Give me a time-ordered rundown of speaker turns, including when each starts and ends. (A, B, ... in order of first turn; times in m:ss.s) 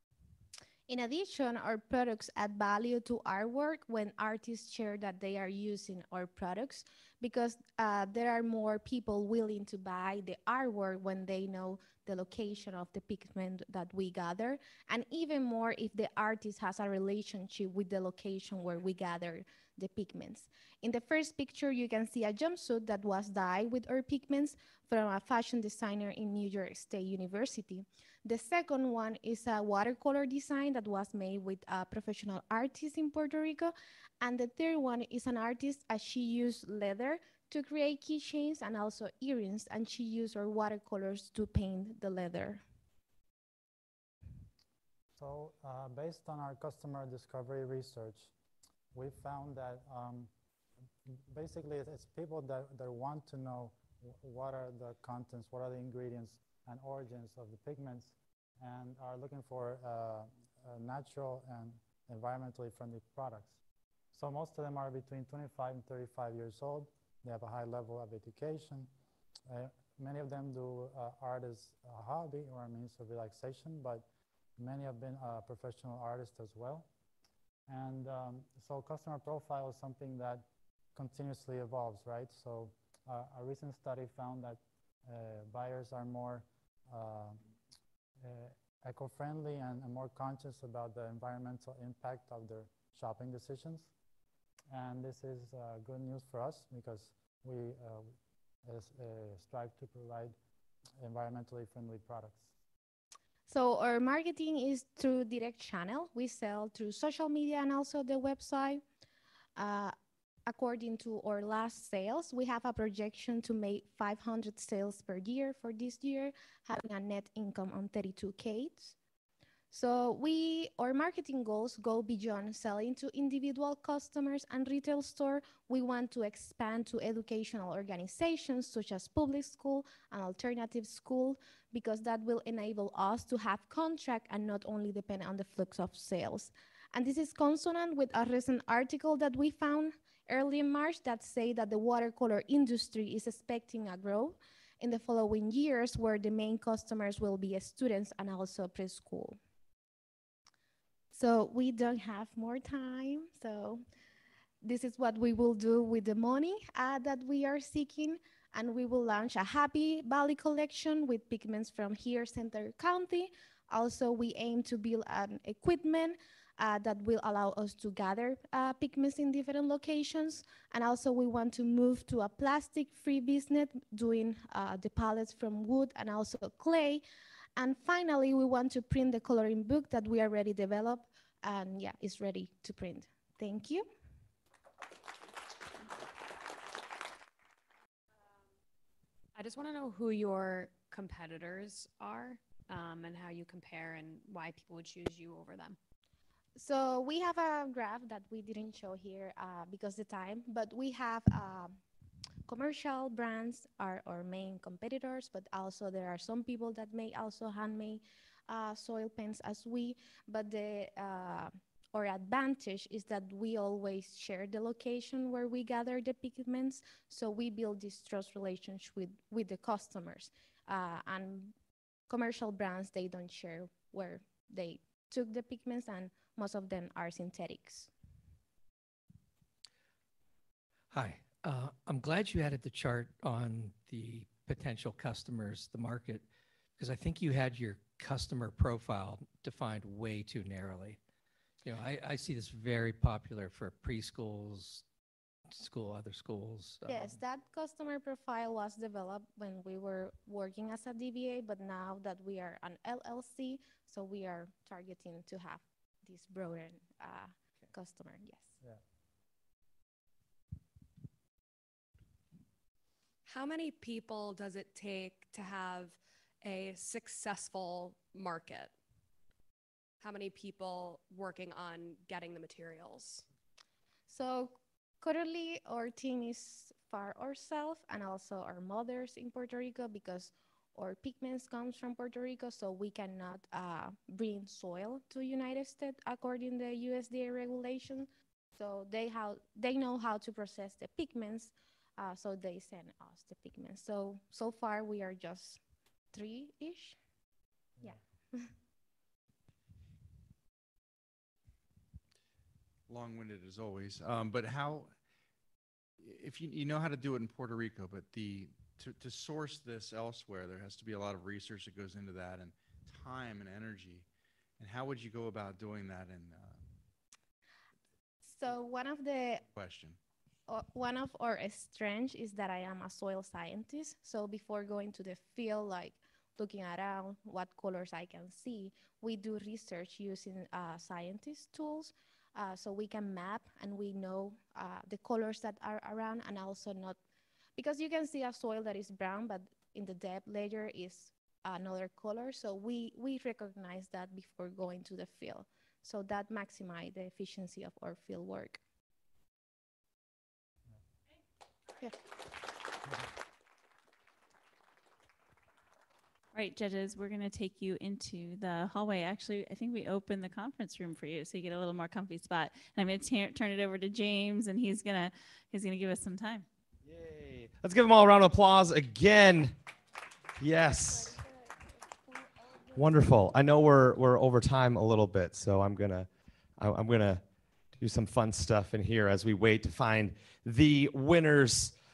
0:00.9-0:42.6 A
0:45.2-0:48.3 B
0:48.9-0:50.3 B
0:51.1-1:03.6 B
1:04.1-1:08.9 B
1:09.5-1:14.1 B
1:14.6-1:16.9 B
1:17.7-1:27.4 B
1:28.2-1:33.9 B
1:34.7-1:38.2 B
1:38.7-1:40.4 B
1:41.0-1:42.5 B
1:43.5-1:48.8 A
1:49.6-1:50.0 A
1:50.5-1:59.0 A
1:59.7-2:29.4 A
2:31.1-2:33.8 A
2:34.6-2:57.0 A
2:57.6-3:03.9 A
3:09.4-3:15.8 C
3:16.6-3:21.8 A
3:22.5-3:41.5 A
3:42.1-3:47.9 A
3:50.9-3:56.2 D
3:56.8-4:01.0 D
4:01.6-4:04.8 D
4:05.5-4:07.2 D
4:06.9-4:18.5 A
4:23.2-4:28.7 E
4:30.0-4:33.2 E
4:34.1-4:55.6 A
4:56.1-4:57.0 A
5:02.9-5:04.9 F
5:06.0-5:14.1 F
5:14.6-5:16.7 F
5:18.2-5:19.4 A
5:19.5-5:20.0 F
5:20.5-5:37.0 A
5:37.6-5:48.6 A
5:56.3-6:06.5 G
6:06.9-6:09.6 H
6:10.4-6:11.2 H
6:12.8-6:16.1 H
6:16.6-6:17.2 H
6:17.8-6:21.7 H